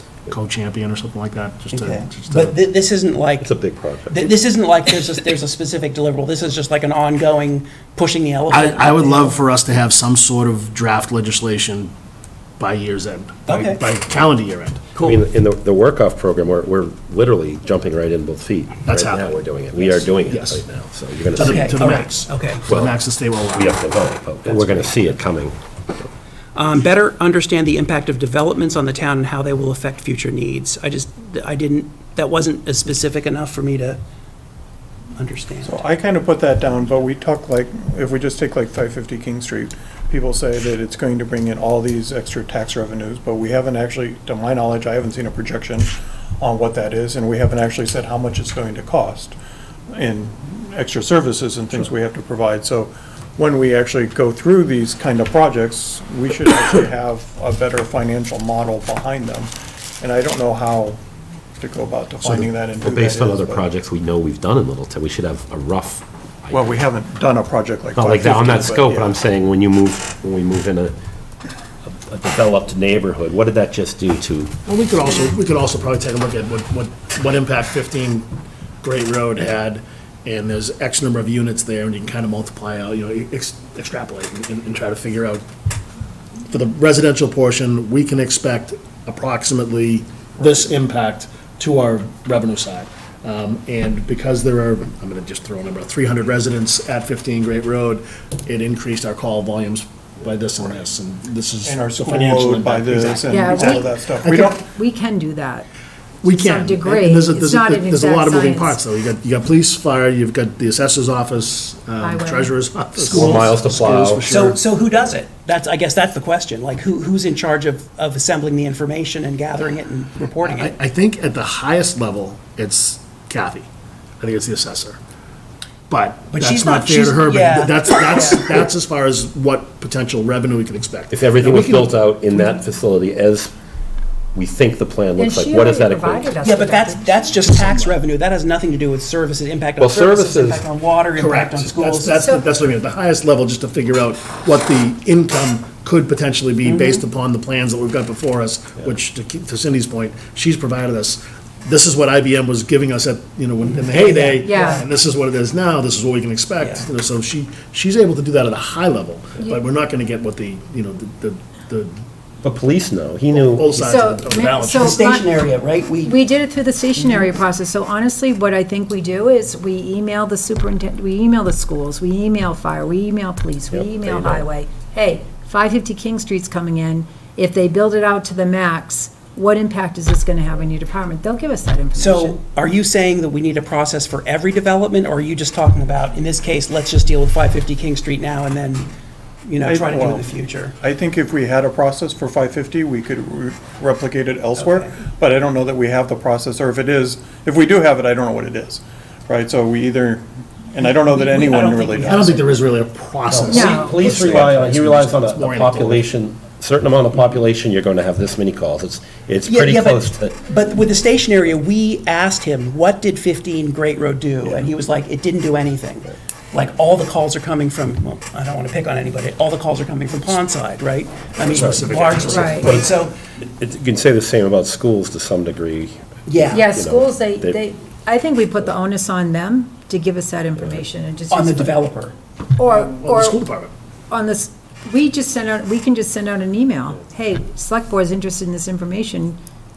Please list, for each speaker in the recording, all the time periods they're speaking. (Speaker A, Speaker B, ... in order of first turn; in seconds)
Speaker A: 0.3-2.5, 8.5-11.9, 12.6-15.1, 18.9-20.6, 21.3-23.8, 74.7-78.3, 78.8-85.4, 86.5-103.9, 106.2-114.6, 120.4-123.7, 124.2-125.0, 125.9-132.0, 137.4-137.9, 141.2-161.9, 163.3-165.1, 202.0-206.1, 221.4-222.9, 232.7-233.7
Speaker B: 1.7-3.5, 4.1-9.3, 13.5-13.8, 21.4-22.6, 24.4-25.0, 26.5-34.0, 35.1-35.8, 113.2-120.7, 126.3-128.6, 136.4-142.2, 146.6-147.0, 164.7-166.2, 181.9-188.9, 189.4-190.7, 194.6-194.9, 200.8-202.5, 204.0-204.4, 209.5-223.1, 226.3-226.7, 231.3-232.1
Speaker C: 3.4-4.3, 15.0-21.8, 22.7-26.1, 62.2-66.6, 68.0-70.9, 71.8-74.5, 113.1-114.2, 131.1-133.5, 134.3-136.4, 139.8-140.6, 162.4-163.8, 173.7-174.5, 203.3-210.4, 221.5-227.6
Speaker D: 35.6-49.4, 49.9-61.0, 61.6-63.6, 66.5-69.2, 101.6-104.6, 189.6-202.3
Speaker E: 103.3-105.7, 106.2-108.8, 112.0-112.6, 135.2-137.3, 142.1-142.5, 153.9-154.8, 163.7-165.4, 166.0-182.4, 203.5-204.0, 222.3-222.8, 226.5-231.9, 232.6-233.4, 234.1-239.4